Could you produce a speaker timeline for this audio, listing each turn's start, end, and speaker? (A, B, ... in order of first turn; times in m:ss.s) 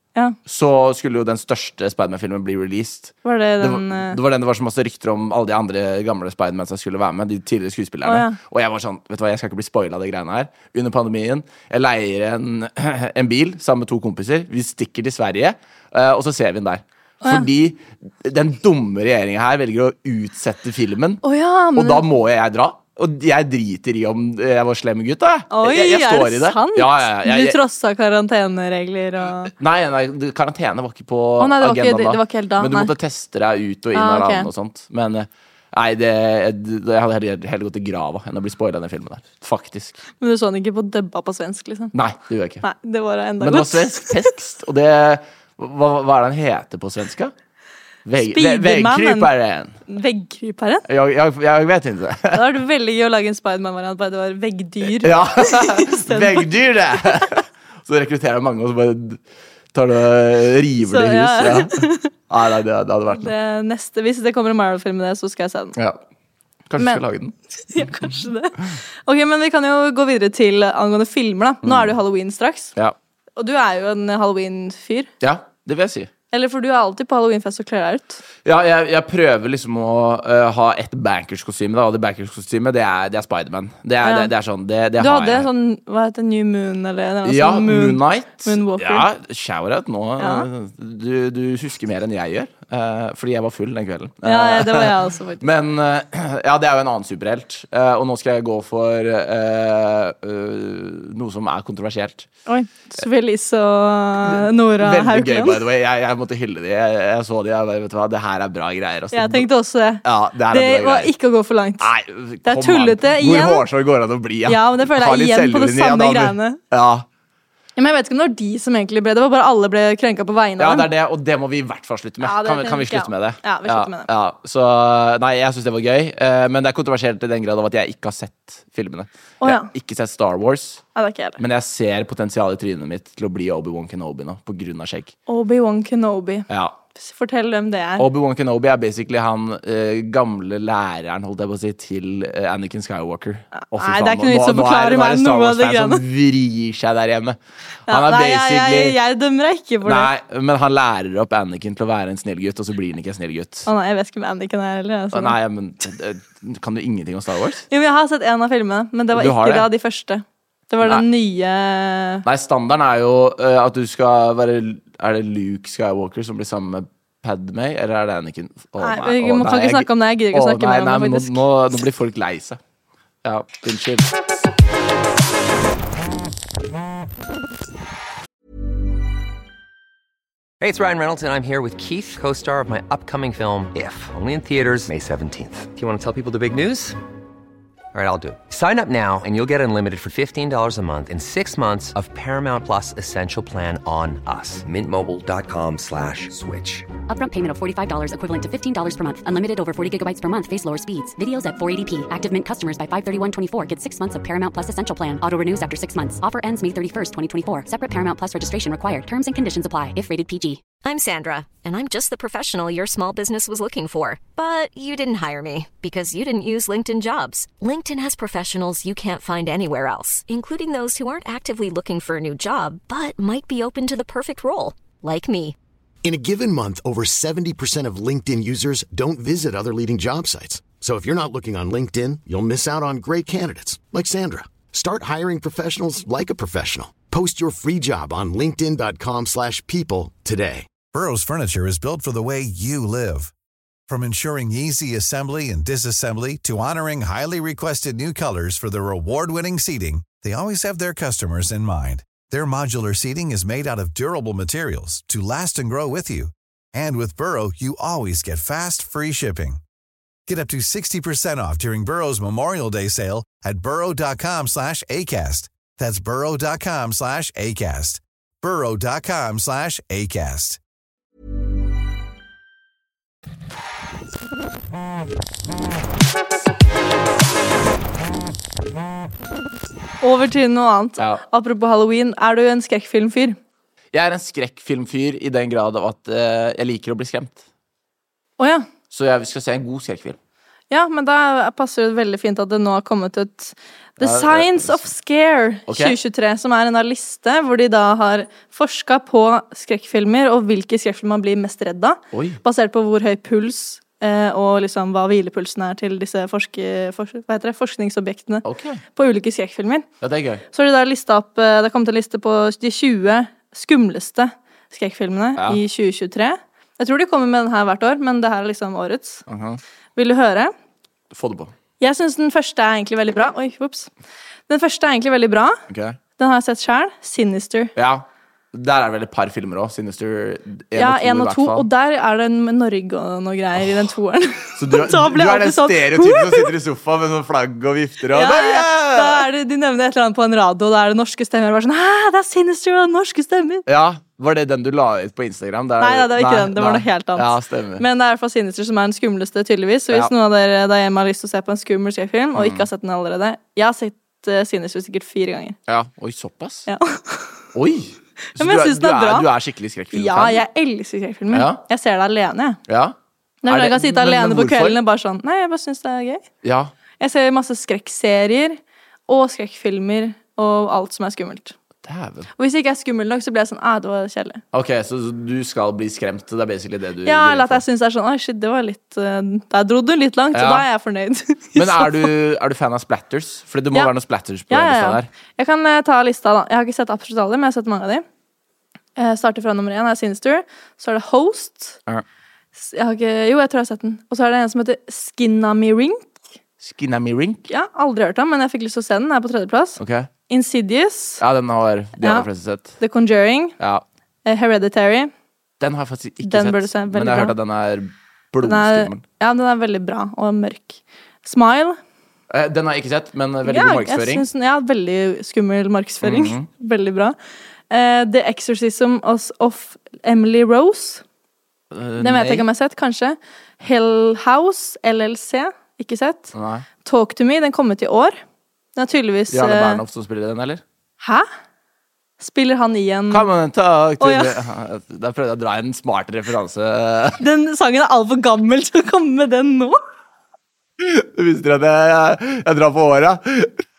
0:00.4-0:21.2 A
0:03.2-0:04.2 B
0:08.0-0:08.4 B
0:21.2-0:22.0 B
0:21.8-0:27.6 A
0:25.5-0:29.5 B
0:29.4-0:40.0 A
0:31.4-0:32.9 B
0:33.9-0:34.5 B
0:40.2-0:41.9 B
0:41.9-0:42.6 A
0:42.6-0:44.1 B
0:43.4-0:47.3 A
0:48.0-0:49.8 A
0:48.2-0:49.3 B
0:49.9-0:50.8 B
0:50.9-0:52.4 A
0:52.3-0:56.5 B
0:55.0-0:59.2 A
0:59.7-1:03.3 A
1:00.8-1:02.1 B
1:03.1-1:05.7 B
1:06.7-1:07.3 A
1:07.7-1:12.7 B
1:11.6-1:11.9 A
1:13.4-1:15.1 B
1:15.2-1:16.1 A
1:16.3-1:18.2 B
1:18.4-1:25.5 A
1:24.0-1:24.3 B
1:25.0-1:29.1 B
1:27.2-1:42.3 A
1:30.2-1:30.5 B
1:34.2-1:35.4 B
1:42.5-1:45.6 B
1:44.3-1:49.5 A
1:49.1-1:51.9 B
1:50.0-1:51.1 A
1:51.8-1:57.0 A
1:52.4-1:53.6 B
1:54.5-1:56.6 B
1:57.8-2:00.8 B
2:00.6-2:10.8 A
2:02.2-2:04.1 B
2:09.4-2:09.7 B
2:11.0-2:11.4 B
2:11.4-2:15.1 A
2:15.3-2:18.0 B
2:16.5-2:16.8 A
2:18.0-2:27.4 A
2:23.5-2:26.0 B
2:27.9-2:29.0 A
2:27.9-2:30.1 B
2:29.8-2:33.7 A
2:33.7-2:35.4 B
2:35.1-2:37.6 A
2:37.7-2:42.2 B
2:39.1-2:39.7 A
2:42.2-2:52.6 A
2:48.8-2:51.3 B
2:53.2-2:54.1 A
3:00.6-3:07.0 C
3:07.9-3:16.9 C
3:17.1-3:30.7 D
3:30.8-3:45.6 E
3:46.0-4:00.7 F
4:00.8-4:03.3 G
4:03.9-4:19.6 G
4:20.3-4:30.6 G
4:40.0-4:43.4 B
4:41.0-4:41.2 A
4:43.9-4:47.4 A
4:48.4-4:48.7 B
4:48.9-4:50.2 A
4:50.7-5:09.8 B
4:54.0-4:54.9 A
4:55.7-4:56.0 A
5:02.1-5:02.4 A
5:08.4-5:08.8 A
5:10.0-5:10.4 A
5:10.5-5:19.2 B
5:19.3-5:19.6 A
5:20.0-5:20.5 B
5:21.1-5:21.5 A
5:21.8-5:23.9 B
5:24.5-5:25.6 B
5:25.7-5:26.0 A
5:26.2-5:27.7 B
5:27.8-5:31.7 A
5:30.8-5:36.5 B
5:34.5-5:39.2 A
5:38.1-5:43.6 B
5:43.7-5:47.8 A
5:45.8-5:55.6 B
5:52.3-5:52.7 A
5:55.7-5:56.7 A
5:56.7-5:57.4 B
5:57.5-6:00.4 A
5:58.3-5:59.3 B
5:59.9-6:02.6 B
6:01.3-6:01.6 A
6:02.7-6:02.9 A
6:03.4-6:06.2 B
6:03.5-6:04.8 A
6:06.4-6:06.7 A
6:07.0-6:11.5 B
6:11.8-6:12.3 A
6:12.4-6:14.4 B
6:14.5-6:17.6 A
6:17.0-6:22.1 B
6:20.3-6:20.6 A
6:21.5-6:25.1 A
6:24.5-6:28.0 B
6:29.0-6:31.8 B
6:32.6-6:36.2 B
6:36.6-6:37.5 A
6:37.5-6:41.2 B
6:39.8-6:40.1 A
6:41.2-6:42.8 A
6:42.0-6:42.3 B
6:42.8-6:43.6 B
6:44.2-6:45.1 B
6:45.6-6:49.0 A
6:46.2-6:47.3 B
6:48.4-6:51.8 B
6:52.3-6:54.2 A
6:53.4-6:57.2 B
6:56.0-6:56.5 A
6:57.7-7:01.0 B
7:01.7-7:02.4 A
7:02.0-7:06.3 B
7:06.3-7:06.6 A
7:06.8-7:08.2 B
7:08.8-7:09.8 B
7:09.3-7:10.6 A
7:11.0-7:11.3 B
7:12.2-7:13.3 B
7:13.1-7:17.2 A
7:14.0-7:14.3 B
7:17.2-7:19.8 B
7:20.8-7:23.5 A